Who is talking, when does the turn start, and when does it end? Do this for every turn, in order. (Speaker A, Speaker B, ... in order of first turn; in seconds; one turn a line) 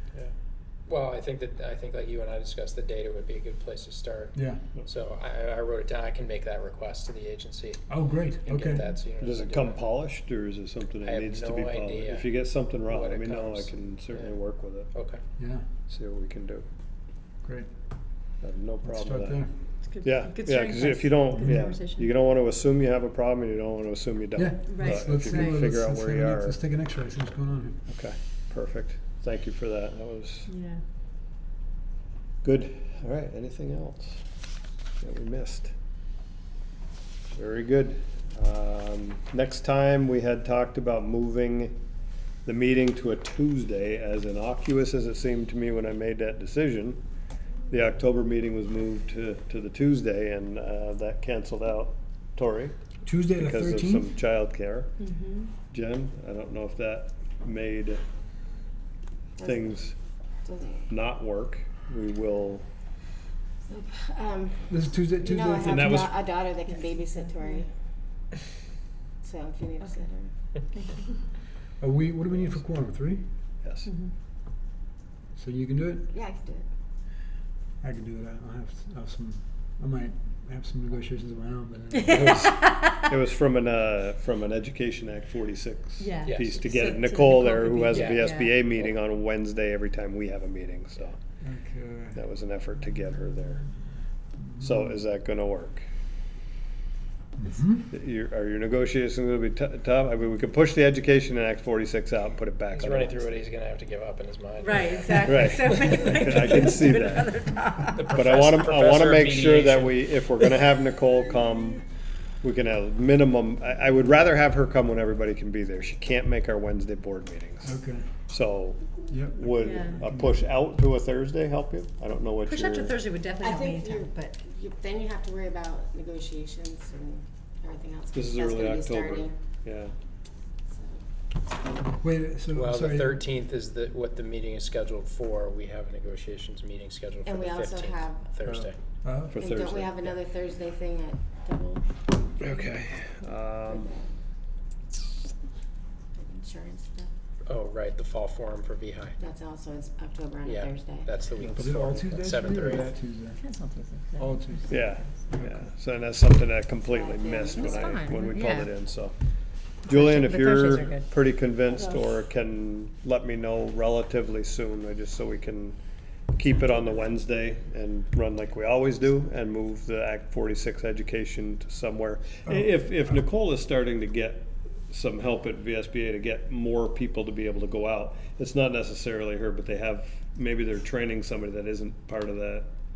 Speaker A: 0.1-9.8
Speaker B: 4.3-4.7
Speaker B: 7.9-8.8
Speaker C: 9.2-14.9
Speaker A: 11.0-14.4
Speaker A: 14.9-15.2
Speaker B: 15.4-15.7
Speaker C: 15.9-16.7
Speaker B: 17.4-17.7
Speaker C: 18.4-19.4
Speaker B: 18.8-19.5
Speaker D: 19.9-22.1
Speaker C: 20.0-26.6
Speaker B: 21.4-21.7
Speaker B: 24.4-27.8
Speaker D: 24.7-25.6
Speaker C: 27.9-30.5
Speaker D: 30.5-30.8
Speaker C: 32.4-34.2
Speaker C: 35.0-35.7
Speaker C: 37.3-41.8
Speaker C: 42.5-47.0
Speaker C: 47.7-52.8
Speaker B: 53.0-54.1
Speaker C: 53.3-54.9
Speaker D: 55.0-55.3
Speaker C: 55.7-58.0
Speaker E: 59.4-59.8
Speaker C: 59.4-60.0
Speaker E: 60.4-60.9
Speaker C: 60.9-62.7
Speaker E: 63.7-67.7
Speaker B: 64.7-66.2
Speaker C: 65.7-66.2
Speaker E: 69.2-70.3
Speaker D: 70.7-71.0
Speaker B: 71.8-73.2
Speaker C: 72.3-72.6
Speaker C: 73.6-73.9
Speaker D: 73.8-74.1
Speaker B: 75.3-76.1
Speaker E: 76.1-76.7
Speaker B: 77.8-82.3
Speaker C: 82.1-91.2
Speaker D: 82.2-83.0
Speaker D: 86.0-88.6
Speaker A: 87.9-88.2
Speaker B: 91.4-92.2
Speaker C: 92.2-93.7
Speaker B: 94.3-95.0
Speaker C: 94.6-95.8
Speaker B: 97.4-97.9
Speaker C: 97.9-103.3
Speaker A: 102.7-106.1
Speaker D: 104.6-108.1
Speaker C: 105.2-107.5
Speaker A: 107.9-110.1
Speaker C: 108.1-111.8
Speaker C: 112.4-117.8
Speaker B: 117.6-118.1
Speaker C: 118.3-123.0
Speaker B: 119.1-120.4
Speaker D: 119.6-120.0
Speaker D: 122.5-124.3
Speaker E: 123.4-129.4
Speaker C: 128.1-129.9
Speaker E: 130.7-131.0
Speaker B: 132.0-133.2
Speaker A: 132.5-138.8
Speaker E: 137.2-138.3
Speaker C: 138.4-138.7
Speaker B: 139.0-139.4
Speaker C: 139.3-140.1
Speaker E: 139.3-141.9
Speaker C: 142.4-143.9
Speaker E: 143.7-144.1
Speaker E: 146.2-147.1
Speaker A: 147.5-149.2
Speaker E: 149.2-151.1
Speaker A: 150.4-152.9
Speaker B: 151.4-153.4
Speaker D: 153.4-155.1
Speaker B: 154.2-155.7
Speaker C: 154.7-159.1
Speaker E: 156.8-158.3
Speaker D: 157.6-158.7
Speaker D: 159.9-161.1
Speaker C: 159.9-165.8
Speaker C: 166.3-182.7